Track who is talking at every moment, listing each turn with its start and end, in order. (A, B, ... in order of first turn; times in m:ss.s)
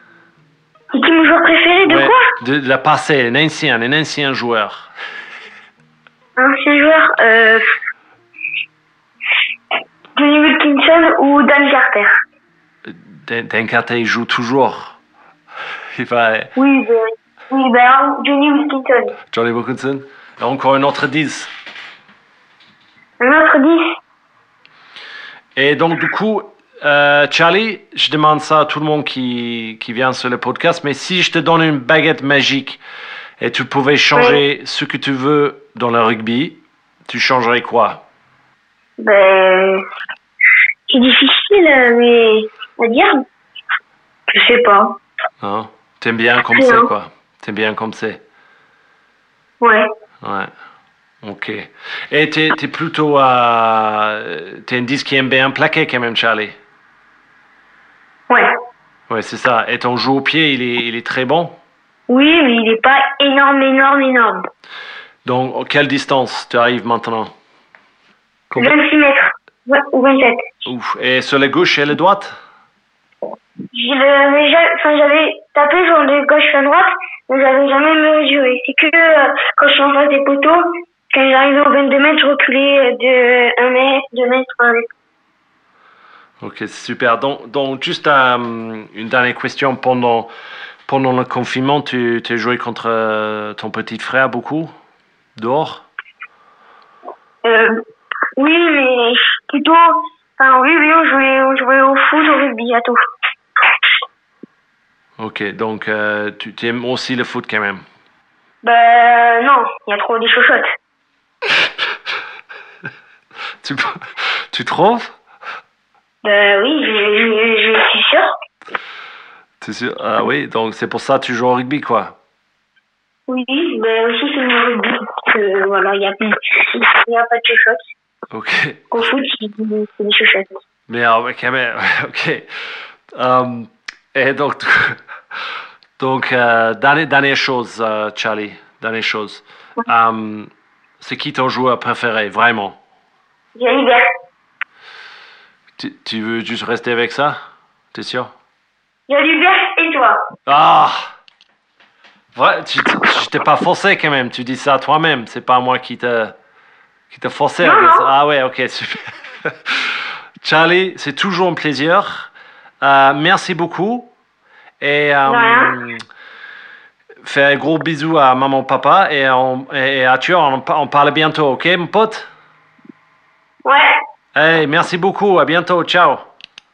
0:00.9-0:02.2 A
0:01.8-0:04.9 B
0:06.4-0:07.6 A
0:10.2-0:12.2 A
0:12.8-0:15.0 B
0:16.0-0:16.5 B
0:16.6-0:19.2 A
0:19.3-0:21.5 B
0:23.2-0:24.0 A
0:25.6-0:32.8 B
0:33.4-0:38.0 B
0:34.2-0:34.4 A
0:39.0-0:39.8 A
0:40.9-0:43.2 A
0:44.3-0:45.0 A
0:45.4-0:48.2 B
0:46.5-0:46.9 A
0:49.6-0:49.9 A
0:50.2-0:50.5 B
0:51.2-0:56.6 B
0:59.1-1:01.6 B
1:02.1-1:04.4 A
1:05.2-1:07.3 B
1:08.6-1:10.5 A
1:10.7-1:12.3 B
1:13.7-1:24.9 A
1:26.4-1:30.3 B
1:30.9-1:34.7 B
1:35.4-1:35.9 B
1:37.4-1:37.8 A
1:38.4-1:43.0 A
1:45.2-1:47.8 B
1:48.6-1:50.7 A
1:53.6-1:55.2 B
1:56.2-1:58.3 A
1:59.6-2:02.2 B
2:03.3-2:07.8 A
2:08.3-2:08.9 B
2:08.9-2:10.6 A
2:10.9-2:12.5 B
2:13.1-2:15.0 B
2:16.0-2:22.8 B
2:23.6-2:24.1 A
2:25.8-2:27.4 B
2:27.9-2:28.3 B
2:29.1-2:30.2 A
2:30.5-2:31.0 B
2:32.4-2:36.3 B
2:37.1-2:44.1 B
2:37.6-2:38.1 A
2:44.8-2:46.0 B
2:45.3-2:45.8 A
2:47.2-2:52.3 B
2:53.6-2:53.9 A
2:54.4-2:56.3 B